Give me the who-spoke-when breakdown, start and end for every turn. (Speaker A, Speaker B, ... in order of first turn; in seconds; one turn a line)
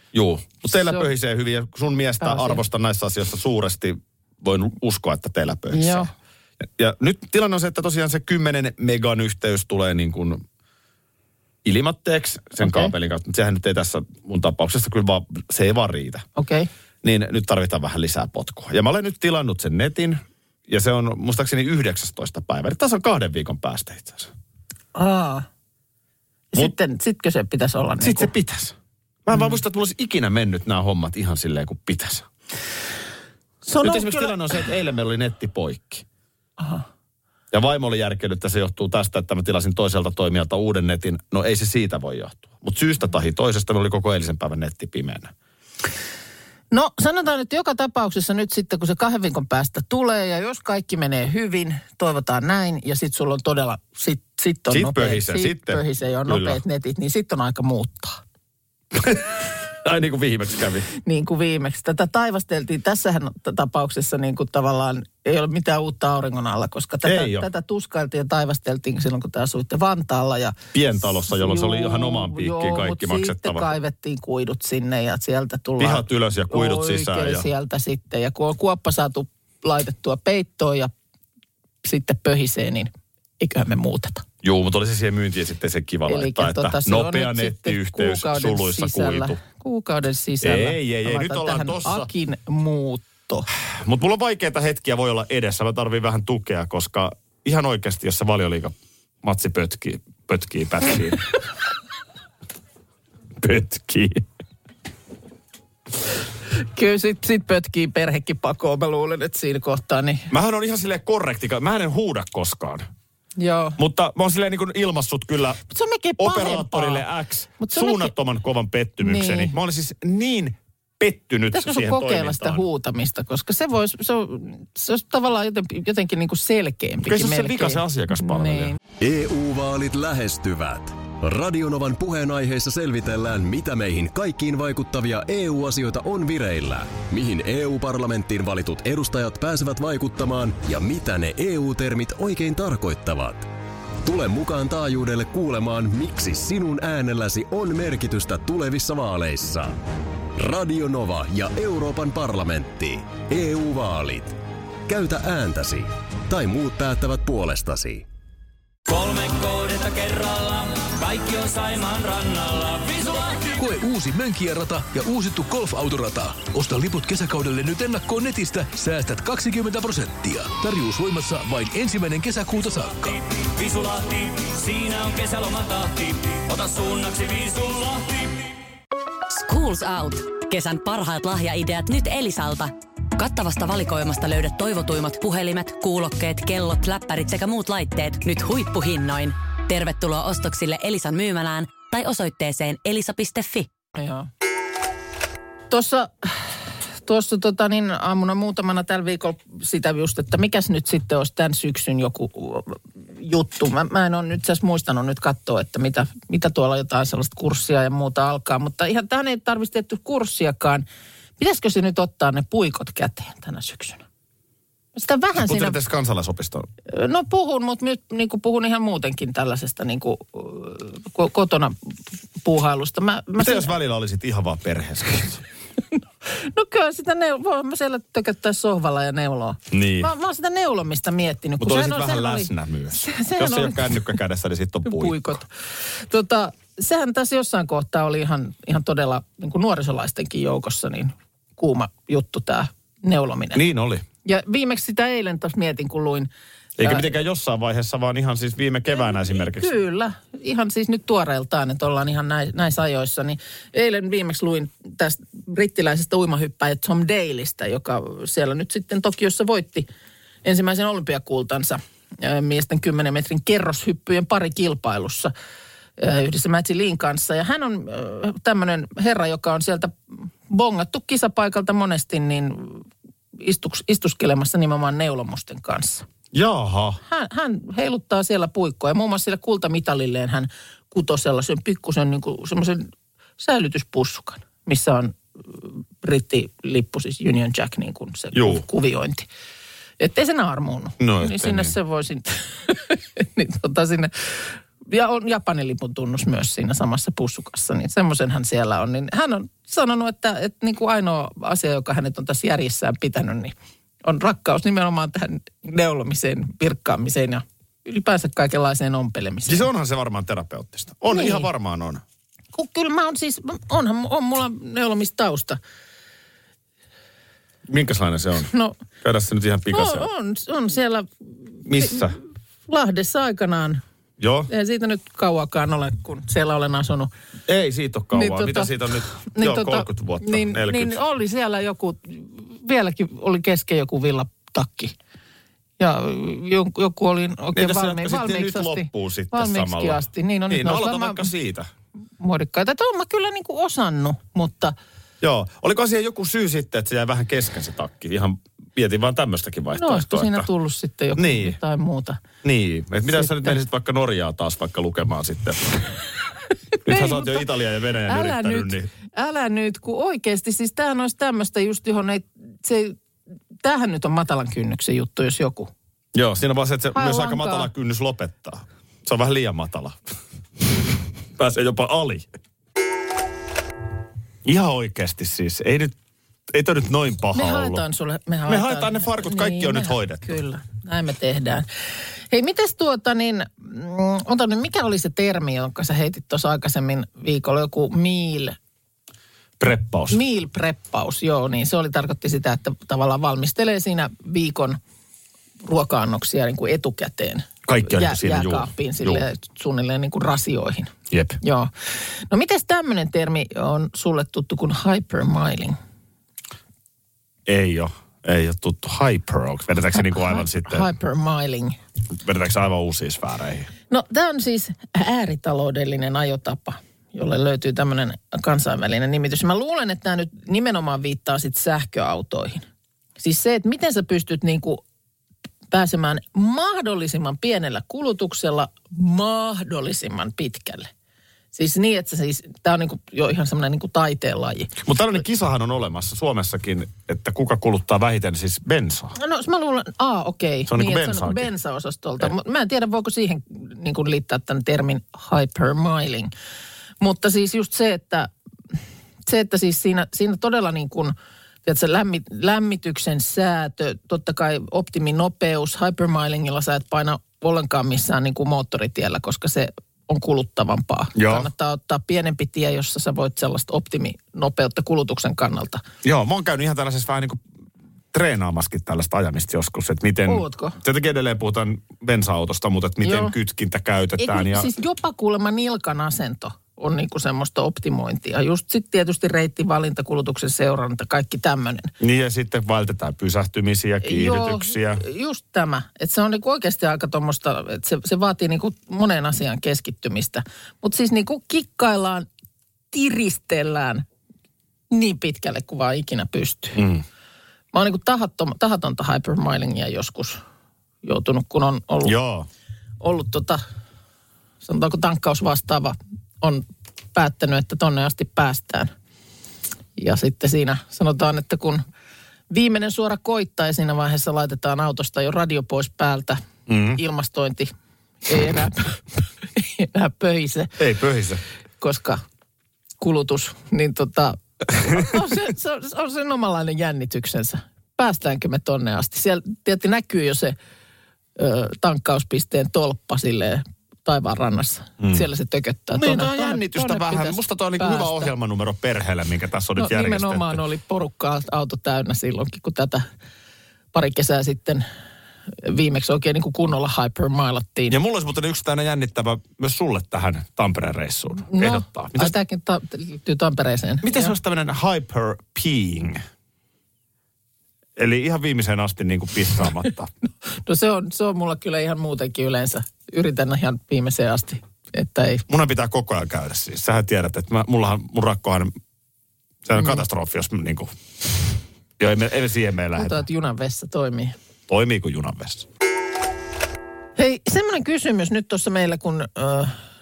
Speaker A: 0.1-6.1
Speaker B: 0.8-1.1
Speaker B: 2.2-2.6
Speaker B: 5.7-6.1
Speaker A: 6.6-10.4
Speaker A: 11.6-16.2
Speaker B: 12.6-12.9
Speaker B: 16.4-16.7
Speaker A: 17.0-24.3
Speaker B: 24.9-25.5
Speaker B: 26.5-28.3
Speaker A: 28.0-28.7
Speaker A: 29.2-32.3
Speaker B: 33.6-34.6
Speaker A: 33.8-36.0
Speaker B: 36.6-36.8
Speaker A: 37.5-45.3
Speaker B: 46.7-58.2
Speaker A: 54.7-56.6
Speaker A: 58.9-60.9
Speaker B: 61.0-80.9
Speaker A: 67.0-67.5
Speaker A: 70.7-73.7
Speaker A: 75.8-77.5
Speaker B: 81.8-84.2
Speaker A: 84.4-89.4
Speaker B: 86.1-93.5
Speaker A: 90.4-92.1
Speaker A: 93.8-101.2
Speaker A: 103.4-104.2
Speaker B: 106.5-110.3
Speaker A: 110.3-112.8
Speaker B: 113.4-113.8
Speaker A: 113.8-115.6
Speaker B: 115.7-117.0
Speaker A: 116.2-122.6
Speaker B: 117.6-118.1
Speaker B: 119.0-119.5
Speaker B: 121.5-128.8
Speaker A: 127.0-128.8
Speaker C: 129.0-143.5
Speaker C: 144.0-149.8
Speaker C: 150.3-158.1
Speaker D: 158.9-163.5
Speaker E: 163.6-173.2
Speaker D: 173.3-178.5
Speaker F: 179.3-193.7
Speaker B: 193.9-194.3
Speaker B: 195.7-196.4
Speaker B: 197.0-210.8
Speaker B: 211.4-214.0
Speaker B: 214.9-215.8
Speaker A: 215.3-216.7
Speaker B: 216.9-221.7
Speaker B: 222.4-223.7
Speaker A: 223.4-225.4
Speaker B: 226.3-234.1
Speaker A: 229.7-230.1
Speaker A: 231.6-235.4
Speaker B: 234.8-243.6
Speaker A: 243.5-244.0
Speaker B: 244.2-247.1
Speaker A: 246.8-249.7
Speaker B: 249.0-259.9
Speaker B: 260.4-265.3
Speaker B: 266.0-269.9
Speaker B: 270.5-272.9
Speaker B: 273.4-276.1
Speaker A: 276.3-277.0
Speaker B: 277.1-289.3
Speaker A: 288.3-288.6
Speaker B: 290.0-309.7
Speaker A: 291.0-291.7
Speaker A: 309.4-312.0
Speaker B: 311.1-311.5
Speaker B: 312.5-315.6
Speaker A: 317.7-320.1
Speaker B: 318.5-318.8
Speaker B: 319.7-323.8
Speaker A: 321.6-322.2
Speaker A: 324.2-324.5
Speaker B: 324.5-327.1
Speaker A: 327.5-331.0
Speaker B: 328.1-334.9
Speaker B: 335.8-341.3
Speaker A: 337.5-341.7
Speaker B: 342.2-344.7
Speaker A: 345.2-350.5
Speaker B: 349.8-352.2
Speaker A: 351.1-351.6
Speaker A: 352.4-355.9
Speaker B: 353.1-353.6
Speaker A: 356.9-358.9
Speaker B: 356.9-357.5
Speaker B: 358.1-363.0
Speaker B: 363.6-365.7
Speaker A: 366.1-370.0
Speaker B: 366.9-367.7
Speaker A: 371.4-372.2
Speaker A: 374.4-375.9
Speaker A: 376.5-377.8
Speaker B: 377.3-381.7
Speaker A: 378.5-380.3
Speaker B: 382.3-388.6
Speaker A: 389.6-390.2
Speaker B: 390.1-394.8
Speaker B: 395.6-401.7
Speaker A: 397.7-399.2
Speaker A: 401.1-401.4
Speaker B: 402.3-405.8
Speaker A: 407.4-410.9
Speaker B: 410.3-411.8
Speaker A: 412.1-413.7
Speaker B: 413.9-422.6
Speaker B: 423.2-424.8
Speaker B: 425.7-430.9
Speaker B: 431.5-434.7
Speaker A: 434.8-439.1
Speaker B: 439.2-446.3
Speaker A: 440.7-441.5
Speaker B: 447.0-448.3
Speaker B: 449.3-451.1
Speaker B: 451.6-465.8
Speaker A: 461.1-461.5
Speaker A: 466.0-467.4
Speaker A: 468.1-474.7
Speaker B: 470.2-470.8
Speaker B: 473.0-473.3
Speaker B: 474.2-481.9
Speaker A: 482.0-485.0
Speaker B: 484.0-492.3
Speaker B: 492.9-494.0
Speaker B: 494.9-496.8
Speaker A: 496.8-497.0
Speaker B: 497.7-500.4
Speaker B: 501.0-502.1
Speaker A: 502.0-502.5
Speaker B: 503.0-503.6
Speaker B: 504.6-506.6
Speaker B: 507.1-508.9
Speaker B: 510.0-511.8
Speaker B: 512.5-516.4
Speaker A: 516.7-517.0
Speaker B: 516.9-517.7
Speaker B: 518.2-519.0
Speaker B: 519.5-520.8
Speaker A: 520.8-521.4
Speaker B: 521.8-522.2
Speaker B: 523.0-530.5
Speaker A: 524.8-525.2
Speaker B: 531.4-538.3
Speaker A: 535.9-540.6
Speaker B: 539.8-543.0
Speaker B: 543.9-544.9
Speaker B: 545.6-548.0
Speaker A: 547.9-552.3
Speaker B: 551.5-554.4
Speaker A: 554.0-556.2
Speaker A: 558.0-560.1
Speaker B: 560.6-565.4
Speaker A: 565.5-568.7
Speaker A: 569.6-570.9
Speaker A: 572.0-573.2
Speaker B: 573.0-574.3
Speaker A: 574.7-575.7
Speaker B: 577.1-579.8